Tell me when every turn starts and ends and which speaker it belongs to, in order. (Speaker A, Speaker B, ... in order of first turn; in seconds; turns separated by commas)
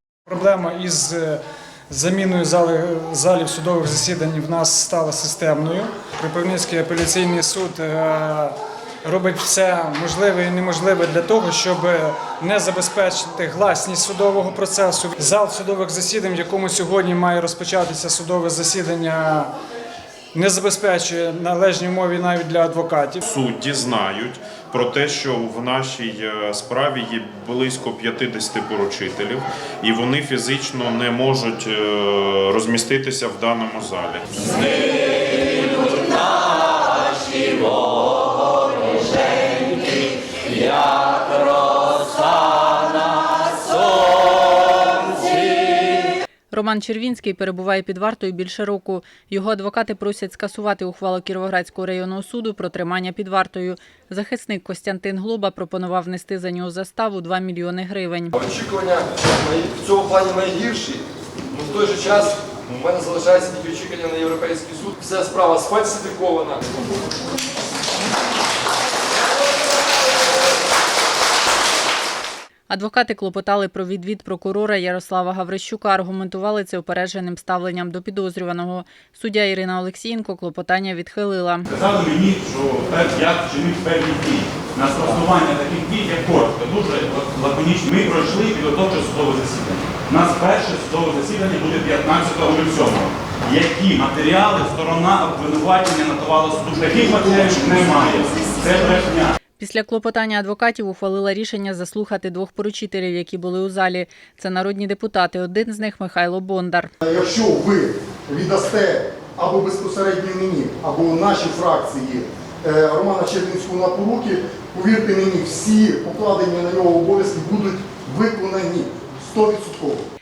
Speaker A: 0.3-19.5, Speaker A: 20.3-23.2, Speaker B: 23.2-36.1, Speaker C: 45.1-45.9, Speaker C: 46.5-58.4, Speaker D: 58.4-66.7, Speaker C: 72.7-81.7, Speaker E: 81.7-99.3, Speaker C: 99.6-106.9, Speaker F: 107.0-120.0